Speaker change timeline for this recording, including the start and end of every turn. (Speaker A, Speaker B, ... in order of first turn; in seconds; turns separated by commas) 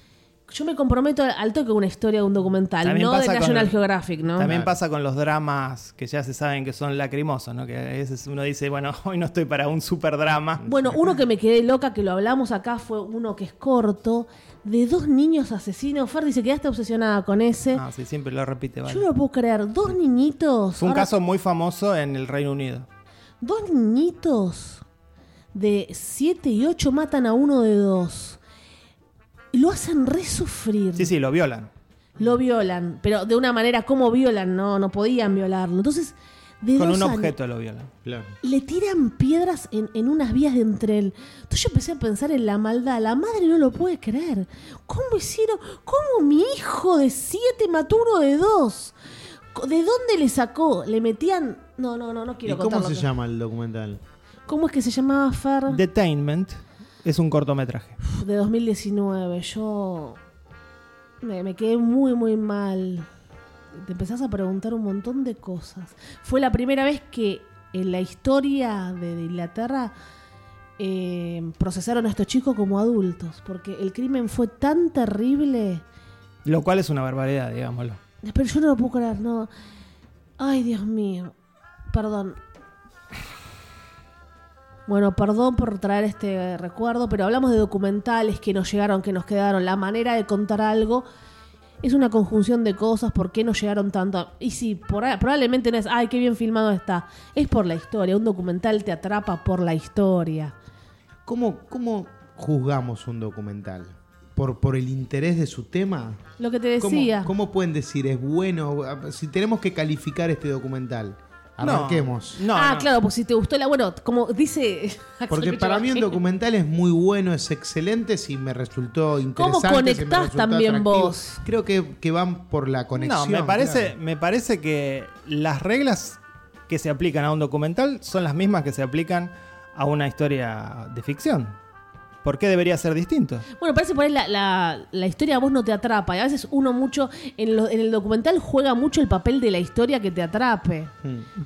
Speaker A: 0.5-4.5, Speaker B: 2.8-3.7, Speaker B: 4.3-10.7, Speaker C: 4.4-4.7, Speaker C: 10.6-10.9, Speaker A: 10.6-17.8, Speaker B: 17.7-19.1, Speaker A: 18.9-21.1, Speaker B: 20.8-22.9, Speaker A: 23.4-24.8, Speaker A: 25.5-28.4, Speaker A: 29.5-31.1, Speaker B: 30.9-31.7, Speaker A: 32.2-37.3, Speaker B: 36.8-37.9, Speaker C: 38.0-38.3, Speaker A: 38.4-48.9, Speaker A: 49.5-53.1, Speaker C: 52.4-54.0, Speaker A: 54.5-55.8, Speaker B: 55.7-58.0, Speaker A: 58.0-60.2, Speaker A: 61.2-63.1, Speaker A: 63.7-69.9, Speaker A: 70.8-75.8, Speaker B: 76.4-78.0, Speaker A: 78.2-79.5, Speaker A: 80.4-81.3, Speaker A: 81.9-82.4, Speaker A: 84.9-91.0, Speaker A: 91.8-100.5, Speaker C: 101.2-106.2, Speaker A: 106.4-107.3, Speaker C: 106.8-112.4, Speaker B: 111.6-112.9, Speaker A: 112.5-116.2, Speaker C: 115.3-123.9, Speaker A: 119.3-121.4, Speaker B: 123.0-131.5, Speaker B: 132.2-133.4, Speaker A: 133.6-140.9